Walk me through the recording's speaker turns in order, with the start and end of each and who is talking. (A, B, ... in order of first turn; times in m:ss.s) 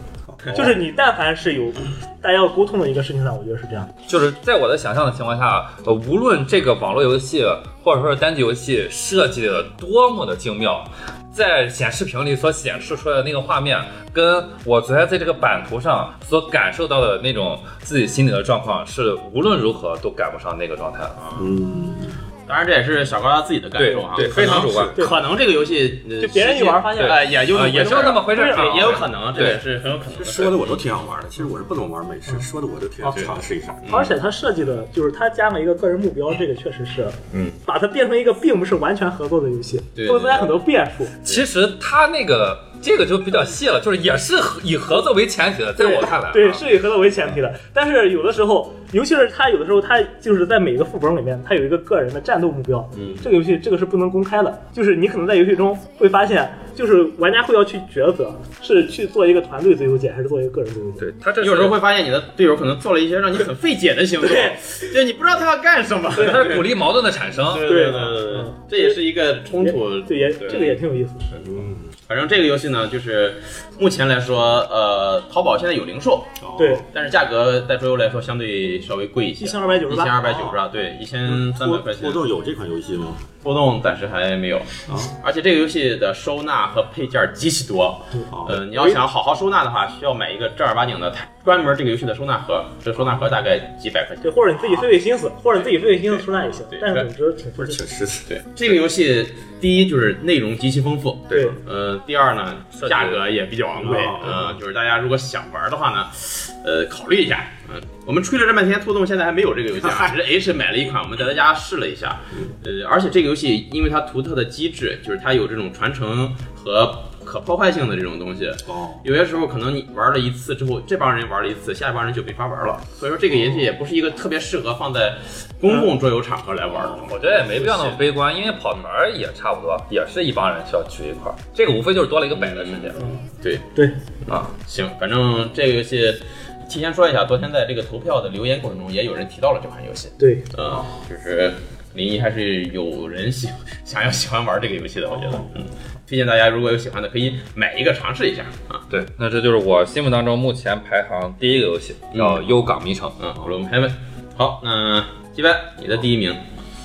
0:00.3-0:00.8 A
0:00.5-0:03.9 B
0:04.1-0:21.4 C
0:21.4-0:22.2 A
0:22.5-0:30.8 D
0:23.8-0:25.0 C
0:24.3-0:24.9 A
0:24.9-0:25.3 B
0:26.2-0:29.0 B
0:27.0-0:29.6 C
0:30.1-0:33.8 A
0:33.1-0:34.2 D
0:33.9-0:41.1 B
0:37.3-0:37.6 D
0:40.0-0:40.6 D
0:41.2-0:46.7 C
0:45.8-1:01.0 B
0:52.9-0:53.2 D
1:01.0-1:01.8 C
1:01.4-1:10.8 D
1:04.2-1:04.6 B
1:06.2-1:07.7 C
1:07.6-1:09.0 B
1:09.6-1:11.3 B
1:11.3-1:11.8 A
1:12.1-1:16.4 D
1:16.4-1:16.8 A
1:16.6-1:16.8 B
1:16.9-1:22.3 D
1:19.4-1:20.2 B
1:20.2-1:20.6 A
1:21.2-1:23.2 A
1:23.4-1:34.9 D
1:24.9-1:25.2 A
1:28.3-1:28.8 A
1:34.2-1:37.8 B
1:35.5-1:37.1 D
1:37.6-1:38.3 A
1:38.3-2:08.0 D
1:41.3-1:41.6 B
1:42.8-1:43.2 C
1:43.8-1:44.6 A
1:49.8-1:50.1 A
1:58.6-1:59.0 A
2:06.8-2:07.1 A
2:07.0-2:13.0 C
2:12.3-2:13.7 D
2:14.5-2:28.8 D
2:20.2-2:20.5 B
2:28.9-2:33.2 C
2:32.1-2:32.6 D
2:33.2-2:36.4 D